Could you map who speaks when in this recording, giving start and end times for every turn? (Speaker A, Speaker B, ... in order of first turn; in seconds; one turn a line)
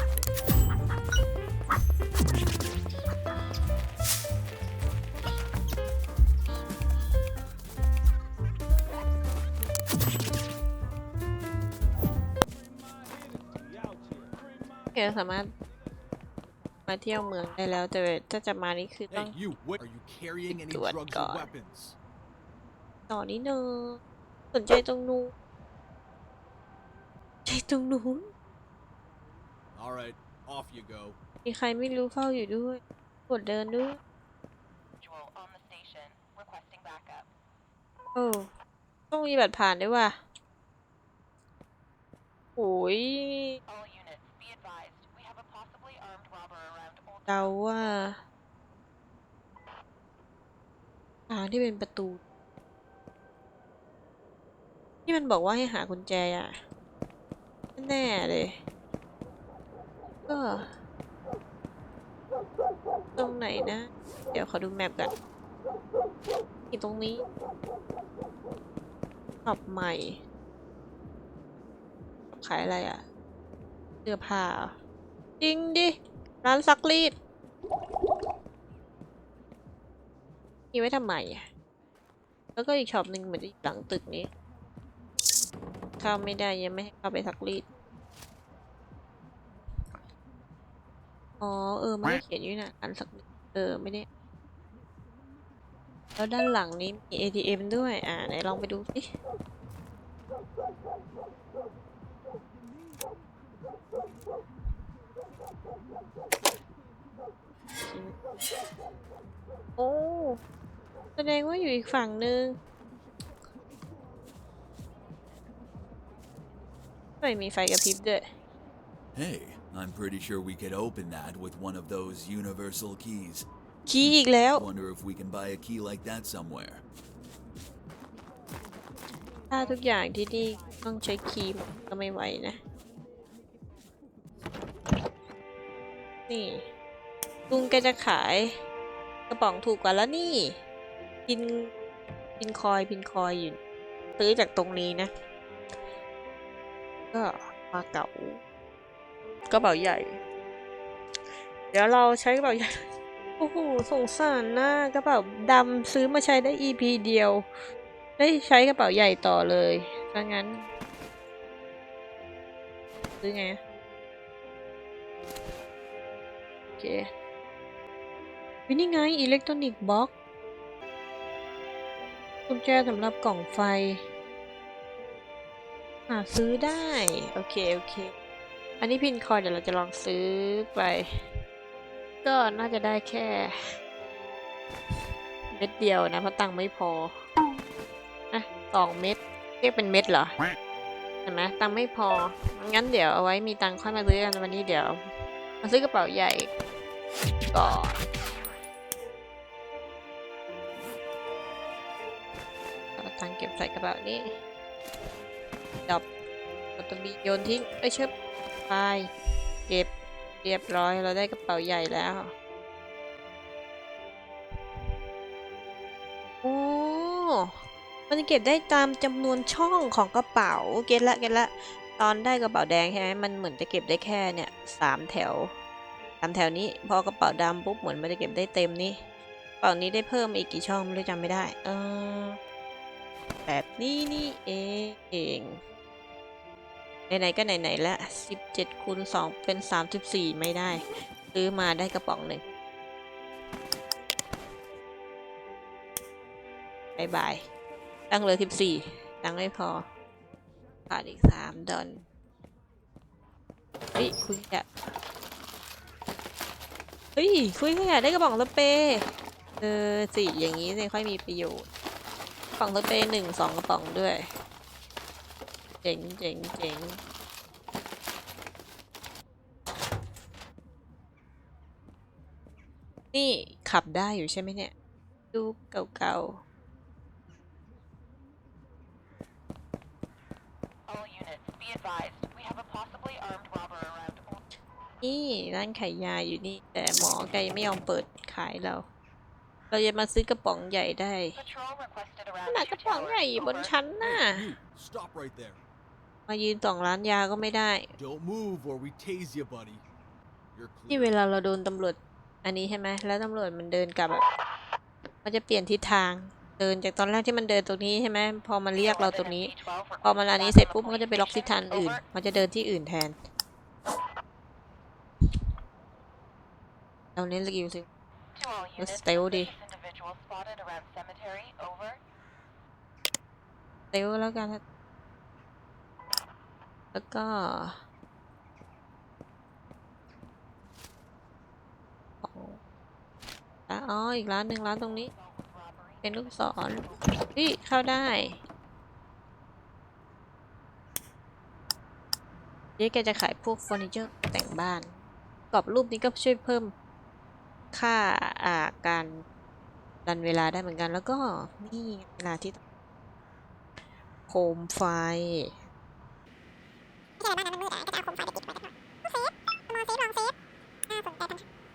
Speaker A: 14.9-15.5
Speaker A: 16.9-19.4
Speaker B: 19.1-22.0
Speaker A: 20.5-21.5
Speaker A: 23.1-24.0
Speaker A: 24.5-25.3
Speaker A: 27.5-28.3
Speaker B: 29.8-31.2
Speaker A: 31.4-34.0
Speaker C: 35.0-37.3
Speaker A: 38.1-38.5
Speaker A: 39.1-40.2
Speaker A: 42.6-43.6
Speaker C: 43.7-48.1
Speaker A: 47.3-48.2
Speaker A: 51.3-52.2
Speaker A: 55.1-56.5
Speaker A: 57.8-58.6
Speaker A: 60.3-60.8
Speaker A: 63.2-65.1
Speaker A: 66.7-67.2
Speaker A: 69.5-70.2
Speaker A: 72.3-73.0
Speaker A: 74.0-74.8
Speaker A: 75.4-77.2
Speaker A: 80.7-81.5
Speaker A: 82.5-84.3
Speaker A: 86.0-87.7
Speaker A: 91.4-94.1
Speaker A: 96.2-99.1
Speaker A: 107.8-108.2
Speaker A: 109.8-110.4
Speaker A: 111.2-112.6
Speaker A: 117.2-118.3
Speaker D: 119.2-123.5
Speaker A: 123.9-124.7
Speaker D: 124.0-126.8
Speaker A: 129.5-132.6
Speaker A: 136.3-136.7
Speaker A: 137.5-138.6
Speaker A: 139.3-140.6
Speaker A: 141.3-141.7
Speaker A: 142.4-143.6
Speaker A: 144.2-145.1
Speaker A: 147.1-148.4
Speaker A: 149.5-150.2
Speaker A: 151.7-152.8
Speaker A: 153.4-157.5
Speaker A: 158.2-160.7
Speaker A: 163.2-163.6
Speaker A: 166.8-167.1
Speaker A: 168.7-170.1
Speaker A: 172.5-174.1
Speaker A: 176.1-178.1
Speaker A: 178.8-181.1
Speaker A: 182.2-183.6
Speaker A: 185.5-187.2
Speaker A: 188.3-190.3
Speaker A: 191.3-195.0
Speaker A: 195.6-196.5
Speaker A: 197.5-198.0
Speaker A: 203.0-204.3
Speaker A: 206.8-208.1
Speaker A: 208.7-209.1
Speaker A: 210.4-212.3
Speaker A: 216.4-217.6
Speaker A: 218.1-225.5
Speaker A: 226.2-229.0
Speaker A: 229.6-232.4
Speaker A: 233.5-235.6
Speaker A: 237.1-242.4
Speaker A: 247.0-247.5
Speaker A: 248.1-249.9
Speaker A: 250.9-252.1
Speaker A: 253.9-254.7
Speaker A: 257.2-259.1
Speaker A: 259.6-261.7
Speaker A: 262.6-264.3
Speaker A: 265.8-267.0
Speaker A: 273.1-274.7
Speaker A: 275.3-276.4
Speaker C: 280.9-284.4
Speaker A: 285.0-288.9
Speaker A: 289.7-291.4
Speaker C: 291.4-293.8
Speaker A: 292.5-294.5
Speaker B: 294.0-295.6
Speaker A: 296.3-297.9
Speaker B: 297.9-299.8
Speaker B: 300.5-301.2
Speaker A: 300.9-304.2
Speaker A: 305.2-309.5
Speaker C: 308.7-312.0
Speaker A: 310.0-313.2
Speaker A: 317.2-317.9
Speaker C: 318.4-322.0
Speaker A: 318.8-319.5
Speaker A: 323.9-324.6
Speaker A: 326.9-327.8
Speaker A: 332.2-332.6
Speaker A: 333.7-335.1
Speaker C: 335.0-337.3
Speaker A: 336.0-336.8
Speaker A: 337.4-338.4
Speaker A: 342.8-345.0
Speaker A: 345.5-346.7
Speaker A: 347.7-349.2
Speaker A: 350.1-352.6
Speaker A: 354.3-355.5
Speaker E: 357.2-360.3
Speaker E: 360.9-361.4